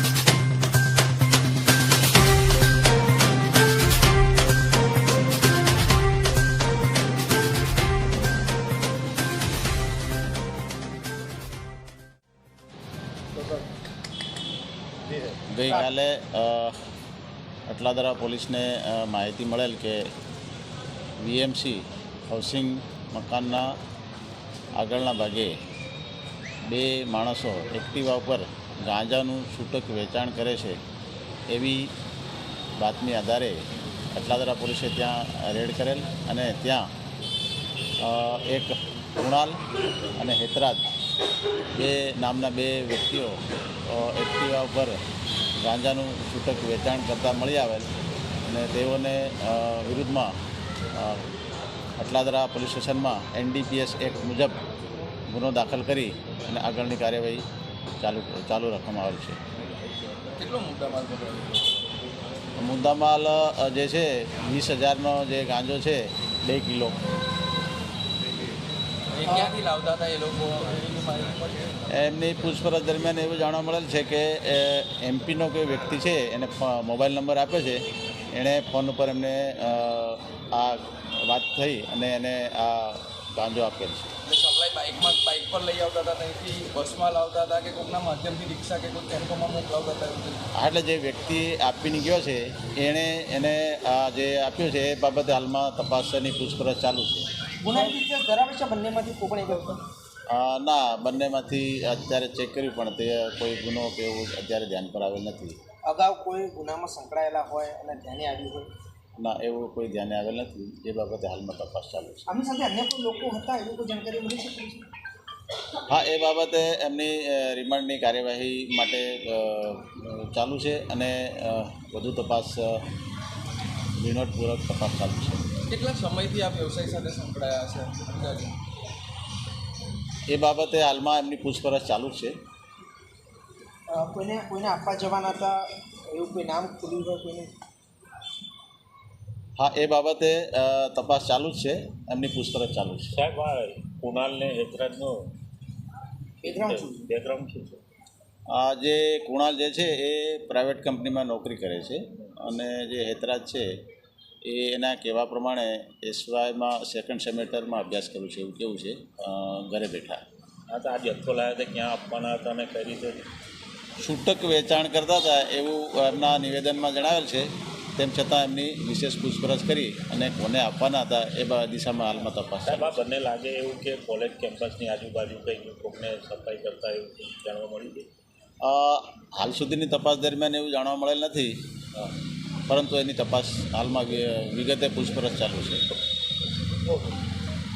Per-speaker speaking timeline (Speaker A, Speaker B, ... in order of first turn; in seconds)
Speaker A: 15.5-16.8, 17.7-20.0, 21.2-23.8, 24.8-25.5, 26.6-30.8, 31.5-31.9, 32.8-36.9, 38.0-39.6, 40.2-40.9, 41.8-45.0, 45.6-47.9, 48.5-50.3, 51.0-51.3, 52.0-54.6, 55.3-57.4, 58.0-59.4, 62.6-67.0, 71.9-84.1, 90.5-97.3, 100.3-105.6, 109.2-112.2, 115.9-122.8, 124.0-125.4, 130.3-132.4, 139.6-143.2, 148.5-153.7, 154.4-160.2, 164.0-173.1, 178.6-181.6, 182.7-185.8
Speaker B: 60.4-61.9, 69.1-71.8, 84.2-90.5, 125.7-128.6
Speaker C: 97.6-99.8, 105.9-108.7, 112.3-114.8, 133.9-137.5, 146.4-147.1
Speaker D: 143.1-145.3, 146.4-147.8, 160.7-163.2, 172.7-178.1